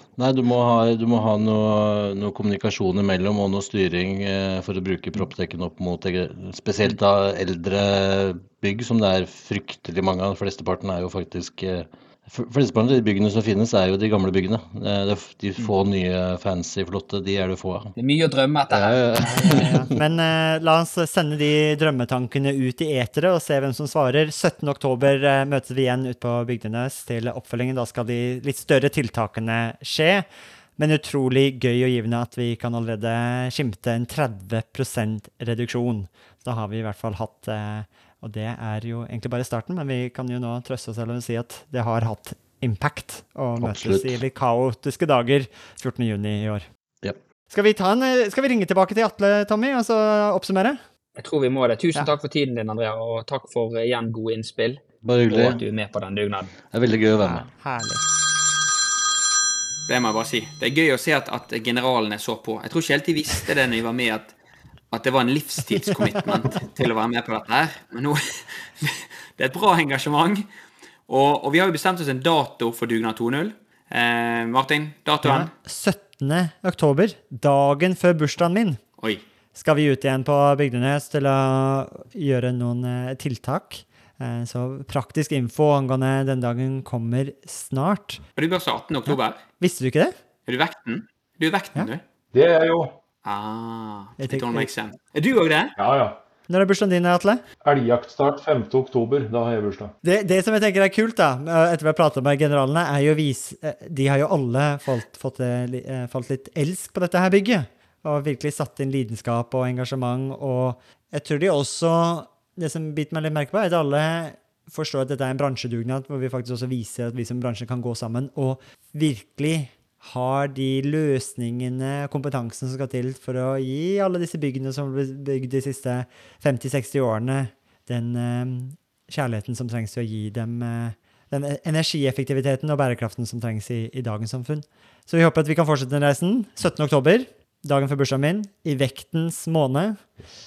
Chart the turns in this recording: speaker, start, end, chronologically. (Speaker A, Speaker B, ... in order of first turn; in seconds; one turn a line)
Speaker A: 0.2-17.9
Speaker B: 18.0-19.6
Speaker A: 18.7-19.9
Speaker C: 19.3-30.2
Speaker C: 30.8-46.6
Speaker A: 43.6-44.2
Speaker C: 47.5-50.8
Speaker B: 51.1-56.5
Speaker A: 55.0-55.6
Speaker A: 56.7-57.5
Speaker C: 57.2-58.0
Speaker D: 59.9-64.3
Speaker D: 64.9-70.5
Speaker D: 71.1-75.5
Speaker C: 75.2-78.8
Speaker C: 79.5-88.2
Speaker D: 88.4-89.4
Speaker C: 89.0-90.1
Speaker D: 90.5-92.0
Speaker E: 92.3-93.0
Speaker D: 93.2-95.7
Speaker C: 94.2-94.7
Speaker E: 95.8-96.2
Speaker C: 96.5-97.4
Speaker E: 97.6-99.9
Speaker C: 100.0-140.0